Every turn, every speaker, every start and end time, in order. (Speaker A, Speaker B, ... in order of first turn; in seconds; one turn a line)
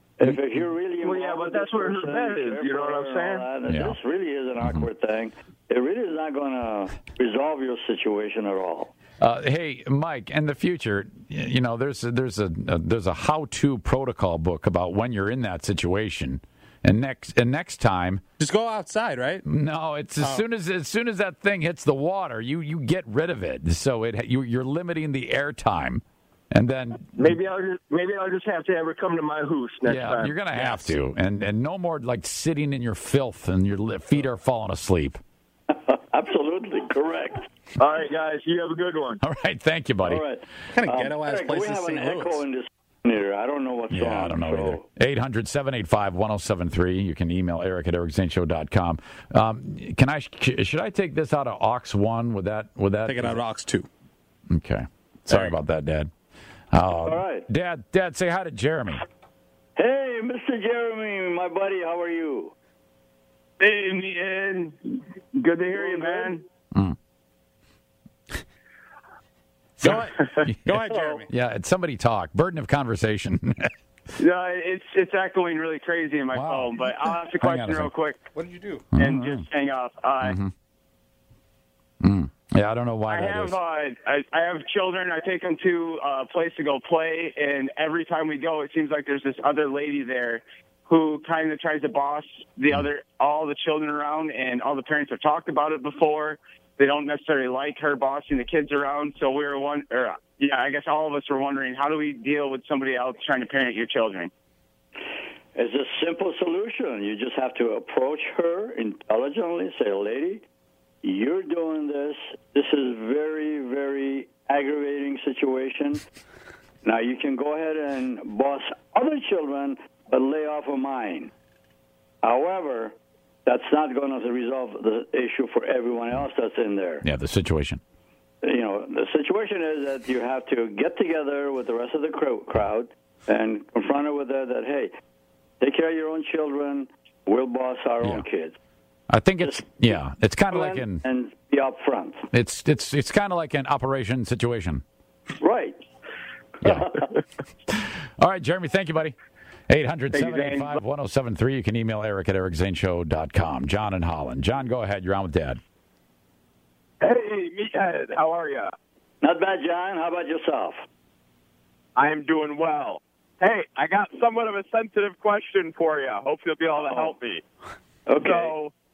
Speaker A: 0.2-8.9
Speaker B: 1.0-3.5
Speaker C: 3.6-4.0
Speaker C: 4.6-4.9
Speaker C: 9.2-18.2
Speaker D: 18.4-19.4
Speaker C: 19.4-27.3
Speaker B: 27.2-30.4
Speaker C: 29.8-35.2
Speaker A: 35.7-37.5
Speaker B: 37.8-39.2
Speaker C: 39.2-40.2
Speaker A: 40.0-44.8
Speaker D: 40.7-42.4
Speaker C: 43.9-53.4
Speaker D: 53.0-53.9
Speaker C: 54.5-56.1
Speaker C: 56.7-59.0
Speaker A: 57.0-57.5
Speaker A: 59.8-62.5
Speaker B: 63.6-66.4
Speaker D: 69.8-71.3
Speaker C: 69.8-73.7
Speaker B: 74.2-78.2
Speaker C: 76.3-76.7
Speaker C: 77.3-77.9
Speaker D: 78.3-78.8
Speaker C: 78.9-79.4
Speaker B: 79.0-80.4
Speaker C: 80.2-80.5
Speaker C: 82.0-83.6
Speaker B: 83.1-104.3
Speaker A: 105.5-110.4
Speaker A: 111.0-116.0
Speaker A: 116.8-121.3
Speaker A: 122.2-127.0
Speaker C: 127.0-127.8
Speaker A: 128.4-134.9
Speaker A: 135.6-138.6
Speaker C: 139.1-141.0
Speaker A: 139.4-139.9
Speaker A: 140.5-142.2
Speaker C: 142.3-144.8
Speaker A: 145.4-145.8
Speaker C: 146.6-147.0
Speaker A: 146.6-147.0
Speaker C: 147.7-149.1
Speaker C: 149.7-155.6
Speaker B: 150.1-150.8
Speaker E: 157.0-158.7
Speaker A: 159.2-160.8
Speaker E: 161.9-167.4
Speaker A: 168.1-168.5
Speaker E: 168.2-168.7